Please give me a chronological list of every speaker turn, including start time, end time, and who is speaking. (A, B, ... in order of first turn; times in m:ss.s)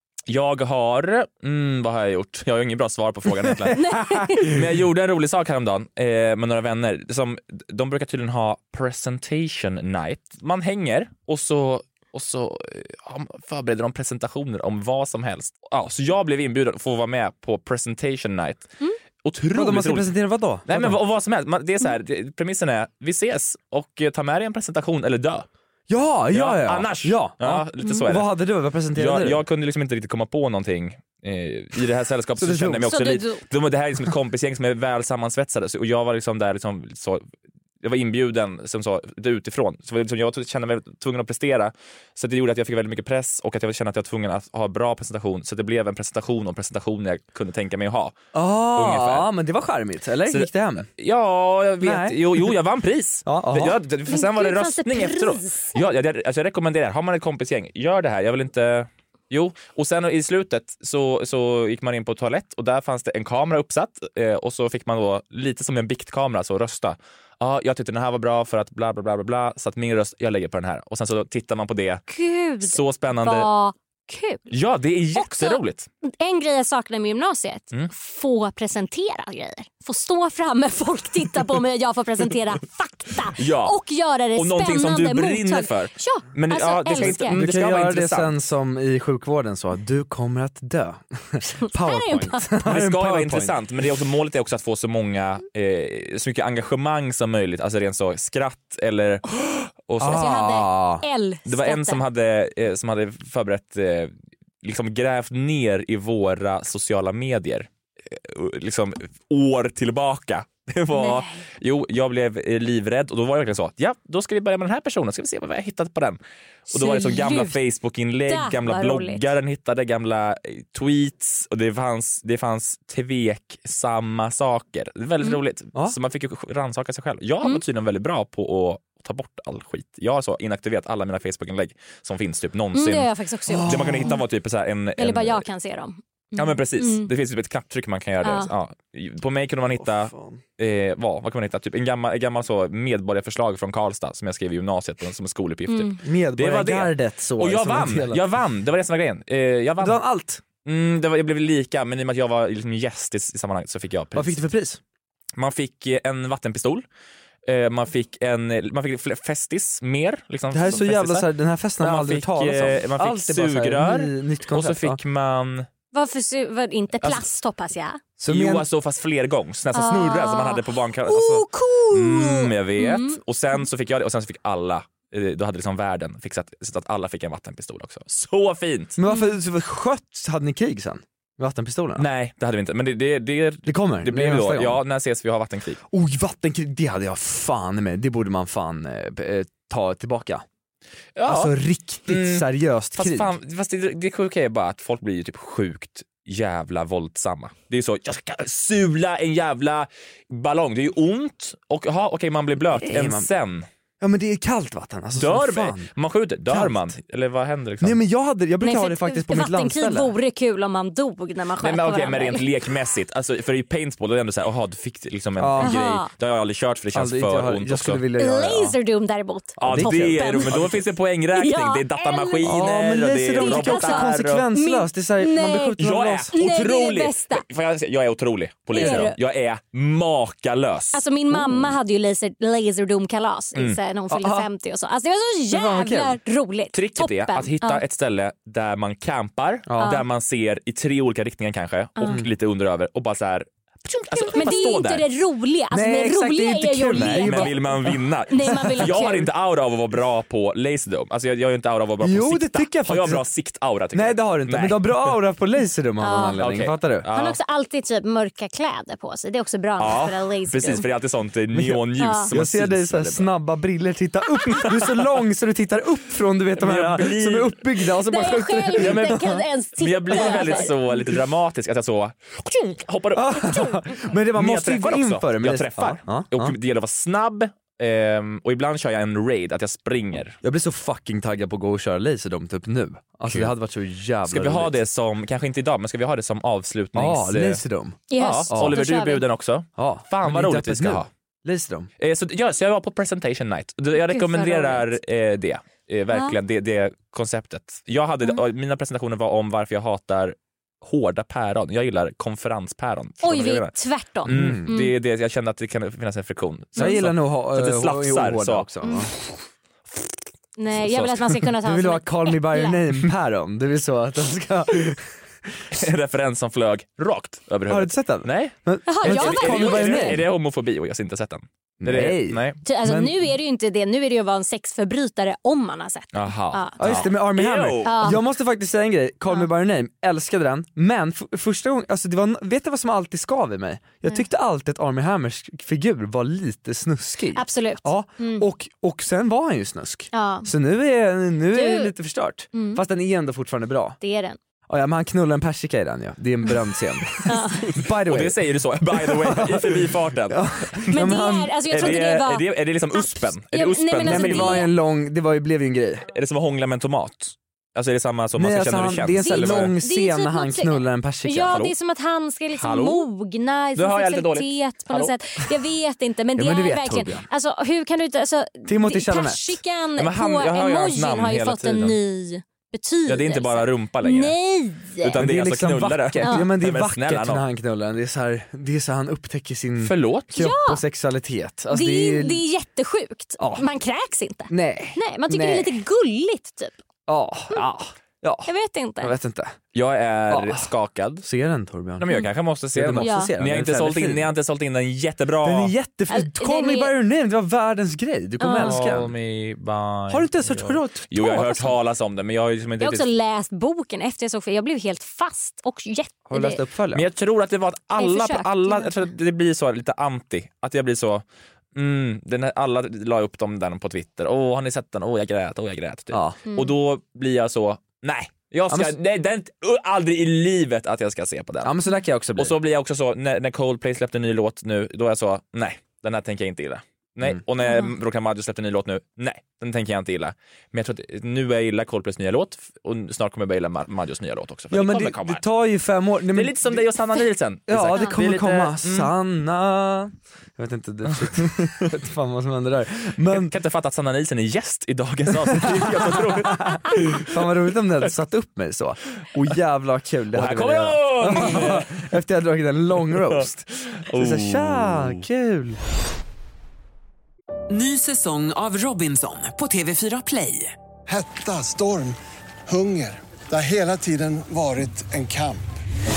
0:00.3-0:18.7 A
0:03.7-0:04.5 B
0:19.2-0:20.1 A
0:19.5-0:21.0 C
0:20.6-0:25.5 A
0:25.9-0:29.4 C
0:26.3-0:28.3 A
0:28.9-0:37.2 A
0:32.4-0:32.9 C
0:32.9-0:33.4 B
0:37.8-0:48.2 A
0:48.3-0:50.9 C
0:48.7-0:49.3 A
0:50.3-1:12.0 A
0:51.8-0:52.5 C
0:53.2-0:53.8 C
0:54.1-0:55.8 B
1:12.1-1:14.5 B
1:12.6-1:13.5 A
1:14.5-1:15.9 A
1:15.2-1:27.4 B
1:23.3-1:23.8 A
1:24.3-1:28.3 A
1:27.0-1:33.5 C
1:31.6-1:32.5 B
1:32.6-1:40.5 A
1:40.0-1:41.0 C
1:40.0-1:42.0 B
1:41.4-2:13.1 A
1:50.9-1:51.4 B
1:56.7-1:57.6 B
1:58.3-1:59.2 B
2:12.7-2:14.2 B
2:13.5-2:14.2 C
2:13.6-2:15.5 A
2:15.0-2:17.1 B
2:16.4-2:30.0 A
2:18.2-2:18.5 B
2:19.8-2:20.4 C
2:25.7-2:26.0 B
2:26.0-2:28.2 C
2:29.8-2:30.4 C
2:30.6-2:34.4 A
2:34.2-2:34.8 C
2:35.4-2:36.8 A
2:37.4-2:45.7 A
2:40.5-2:45.0 C
2:45.9-2:48.0 B
2:48.2-2:48.6 C
2:48.3-2:59.0 A
2:49.7-2:53.2 B
2:59.0-3:02.1 C
3:02.0-3:05.8 A
3:03.6-3:04.8 C
3:05.9-3:10.4 C
3:11.2-3:11.5 A
3:11.2-3:13.3 C
3:12.1-3:23.7 A
3:22.8-3:23.3 C
3:24.0-3:25.9 C
3:25.1-3:28.0 A
3:26.5-3:26.8 C
3:27.8-3:30.1 C
3:28.6-3:32.4 B
3:31.6-3:38.0 A
3:35.4-3:35.8 C
3:35.6-3:36.1 B
3:36.9-3:38.8 C
3:38.2-3:42.5 B
3:39.6-3:40.6 C
3:39.6-3:44.5 A
3:42.4-3:46.3 C
3:43.4-3:45.8 B
3:45.8-3:51.0 A
3:46.3-3:47.4 B
3:48.7-3:49.2 B
3:48.7-3:49.1 C
3:50.9-3:57.8 B
3:54.1-3:54.5 C
3:55.5-3:56.2 C
3:56.7-4:05.1 A
3:59.7-4:00.0 C
4:04.2-4:04.6 C
4:04.3-4:07.6 B
4:05.7-4:09.0 C
4:06.9-4:15.2 A
4:08.3-4:09.3 B
4:12.0-4:13.2 C
4:13.9-4:17.0 C
4:16.0-4:16.4 B
4:16.4-4:17.4 A
4:17.1-4:20.8 B
4:19.8-4:23.3 A
4:21.5-4:29.4 C
4:22.0-4:22.3 B
4:24.5-4:25.0 A
4:26.6-4:27.6 A
4:28.0-4:30.7 B
4:28.8-4:29.1 A
4:29.8-4:40.4 A
4:30.1-4:30.6 C
4:33.1-4:36.5 C
4:40.4-4:44.7 C
4:44.2-4:47.6 A
4:46.9-4:48.8 C
4:48.1-4:49.2 B
4:48.2-4:51.1 A
4:49.8-4:51.9 C
4:52.0-5:03.7 A
4:53.9-4:54.9 B
5:03.2-5:04.9 B
5:04.2-5:08.7 A
5:04.3-5:04.7 C
5:06.8-5:09.1 C
5:10.6-5:12.8 B
5:10.9-5:11.4 A
5:11.6-5:15.1 C
5:15.7-5:22.6 A
5:17.7-5:20.2 C
5:18.9-5:20.2 B
5:21.8-5:23.3 C
5:22.6-5:27.1 B
5:26.1-5:28.1 A
5:26.8-5:44.0 C
5:27.8-5:28.2 B
5:37.3-5:38.4 B
5:40.1-5:40.5 B
5:41.5-5:41.9 B
5:42.5-5:42.8 B
5:44.0-5:44.4 B
5:44.7-5:48.4 C
5:47.2-5:47.7 B
5:47.7-5:51.0 A
5:48.9-5:52.0 C
5:50.9-5:54.7 B
5:51.7-5:54.6 A
5:54.0-5:56.1 C
5:56.1-5:59.7 A
5:58.4-6:01.7 C
5:59.2-6:15.2 B
6:02.6-6:03.1 A
6:03.8-6:05.1 A
6:06.4-6:07.2 C
6:08.7-6:09.6 C
6:10.0-6:12.0 A
6:13.0-6:14.3 A
6:15.0-6:17.4 A
6:15.1-6:22.4 C
6:19.8-6:20.4 A
6:20.3-6:20.8 B
6:21.7-6:26.7 B
6:23.4-6:23.7 C
6:24.5-6:25.8 C
6:27.1-6:28.5 C
6:28.4-6:29.1 B
6:29.0-6:29.6 C
6:29.7-6:31.2 A
6:30.3-6:30.7 C
6:31.2-6:32.1 C
6:32.0-6:35.7 A
6:32.7-6:34.3 C
6:33.0-6:33.3 B
6:35.4-6:39.1 C
6:36.1-6:36.9 B
6:38.4-6:38.8 B
6:38.6-6:43.1 A
6:40.1-6:41.7 C
6:42.8-6:46.6 B
6:46.3-6:47.0 C
6:46.9-6:51.2 A
6:48.0-6:49.0 B
6:51.7-7:01.8 A
6:56.1-6:56.4 C
6:58.7-6:58.9 C
7:01.6-7:02.6 C
7:02.4-7:15.4 A
7:07.6-7:07.9 B
7:14.7-7:16.8 C
7:16.3-7:19.1 A
7:17.7-7:23.5 C
7:21.2-7:21.8 A
7:23.3-7:27.2 A
7:25.3-7:35.8 C
7:30.3-7:32.0 A
7:33.1-7:35.2 A
7:37.7-7:40.7 D
7:41.1-7:42.2 E
7:42.7-7:45.7 E